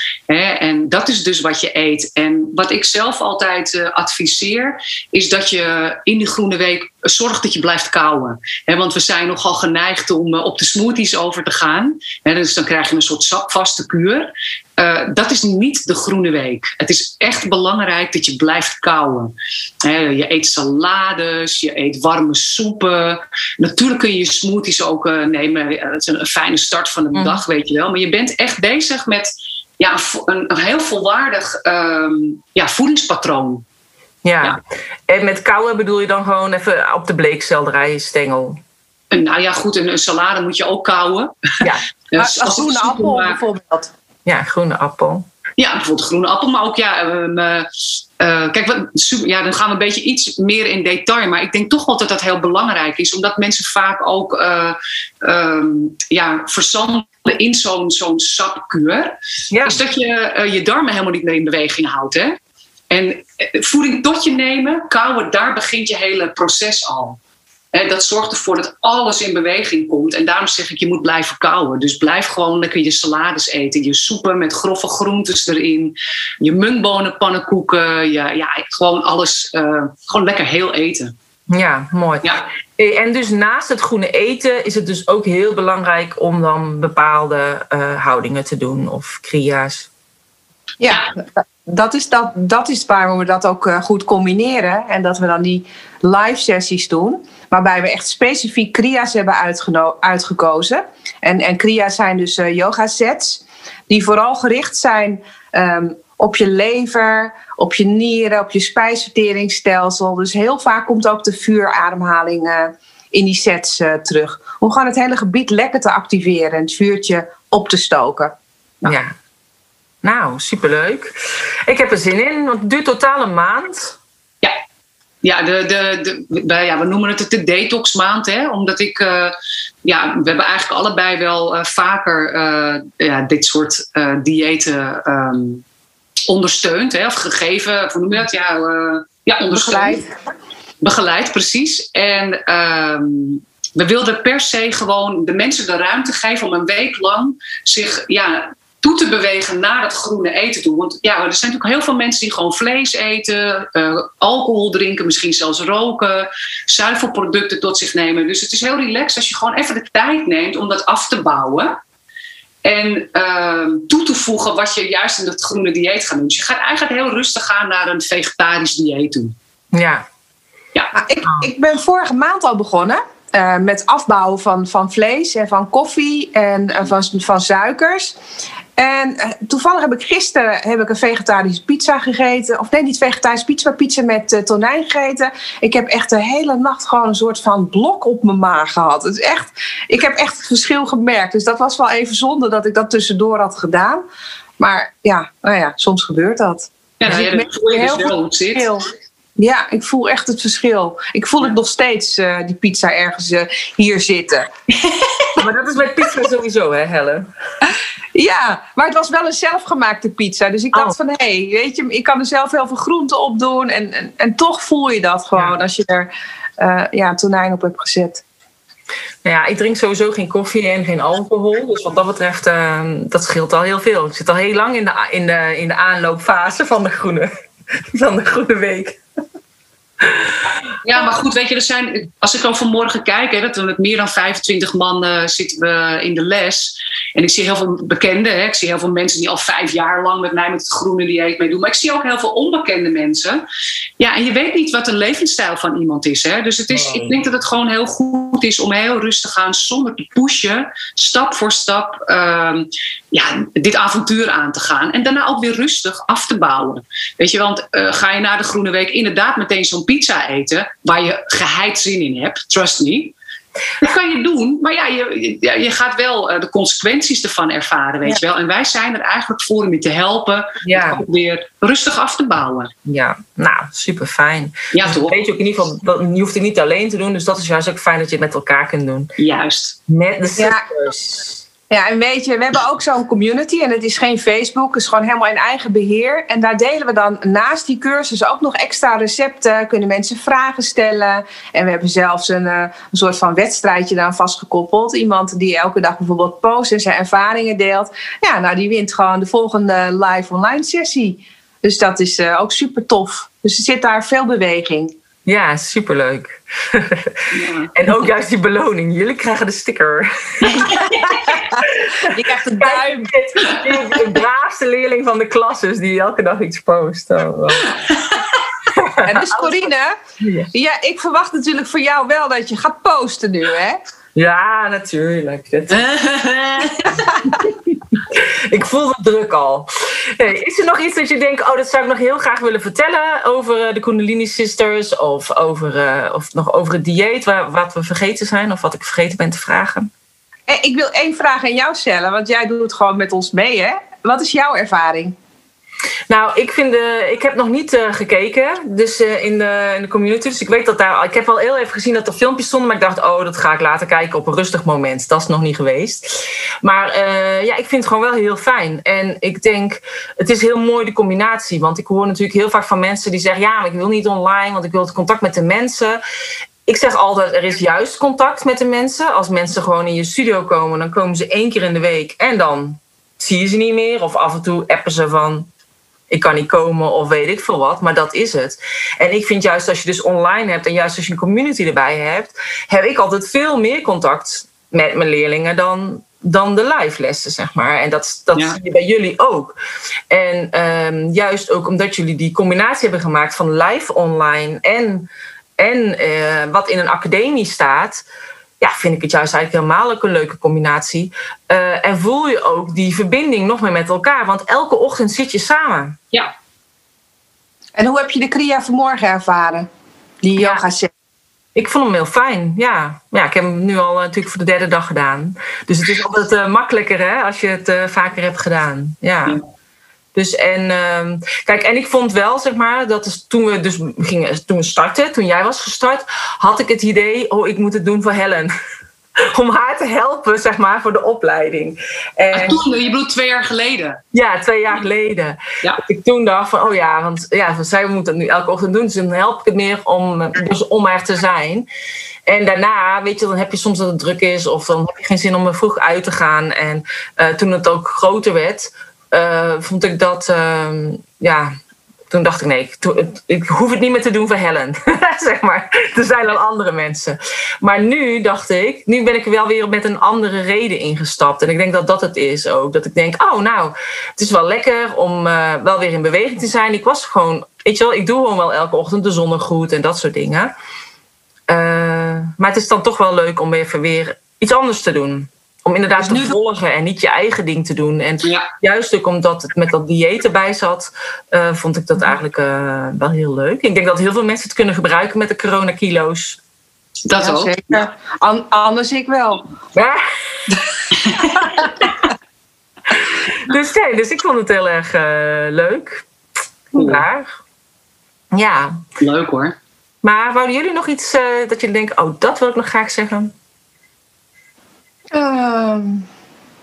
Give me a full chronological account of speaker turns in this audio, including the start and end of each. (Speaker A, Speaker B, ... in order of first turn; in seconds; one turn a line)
Speaker A: 0.3-33.6
Speaker B: 27.1-27.4
Speaker B: 34.2-38.6
Speaker A: 39.1-43.4
Speaker C: 42.2-43.9
Speaker B: 44.2-45.2
Speaker A: 45.6-62.4
Speaker B: 59.5-59.8
Speaker A: 62.9-67.2
Speaker A: 67.7-81.1
Speaker B: 81.5-89.9
Speaker C: 90.8-118.3
Speaker B: 118.8-119.1
Speaker B: 120.0-121.1
Speaker B: 121.7-124.0
Speaker A: 125.2-129.3
Speaker A: 129.8-135.6
Speaker A: 136.3-140.0
Speaker C: 139.5-140.1
Speaker A: 140.8-161.8
Speaker A: 162.6-169.3
Speaker B: 169.7-170.1
Speaker C: 170.9-178.2
Speaker C: 178.8-194.0
Speaker C: 194.6-198.8
Speaker A: 197.0-198.7
Speaker C: 199.4-204.5
Speaker A: 204.8-205.4
Speaker B: 205.4-207.3
Speaker C: 208.1-218.2
Speaker B: 219.2-227.3
Speaker B: 227.9-229.0
Speaker B: 230.0-230.5
Speaker A: 230.8-243.4
Speaker A: 244.0-263.1
Speaker B: 246.7-247.1
Speaker A: 263.8-272.7
Speaker B: 270.6-271.0
Speaker B: 272.9-279.1
Speaker A: 274.7-275.2
Speaker A: 279.2-279.8
Speaker B: 279.9-281.4
Speaker C: 280.4-280.6
Speaker C: 281.7-304.9
Speaker B: 305.2-317.8
Speaker A: 307.3-307.7
Speaker A: 310.5-311.0
Speaker C: 312.0-313.1
Speaker A: 317.9-318.2
Speaker B: 318.7-319.6
Speaker C: 319.0-319.9
Speaker B: 320.2-320.5
Speaker C: 320.5-323.8
Speaker B: 324.1-325.9
Speaker A: 325.7-327.0
Speaker B: 327.3-339.9
Speaker C: 340.5-345.1
Speaker B: 346.1-366.0
Speaker B: 366.6-375.5
Speaker B: 376.1-389.5
Speaker A: 388.3-388.6
Speaker B: 390.1-398.0
Speaker B: 398.6-406.0
Speaker C: 407.8-409.7
Speaker C: 410.2-410.9
Speaker B: 410.4-410.6
Speaker B: 411.5-419.4
Speaker B: 420.1-428.5
Speaker B: 429.3-432.6
Speaker A: 432.3-434.0
Speaker B: 434.1-441.6
Speaker B: 442.2-451.6
Speaker B: 452.1-470.5
Speaker B: 471.5-486.4
Speaker C: 476.0-476.3
Speaker A: 487.1-487.8
Speaker C: 487.2-489.4
Speaker B: 489.7-490.0
Speaker A: 491.0-491.4
Speaker B: 493.2-496.0
Speaker B: 496.7-497.4
Speaker A: 496.8-497.1
Speaker B: 498.3-498.8
Speaker A: 499.0-499.6
Speaker B: 500.0-503.3
Speaker C: 505.1-506.1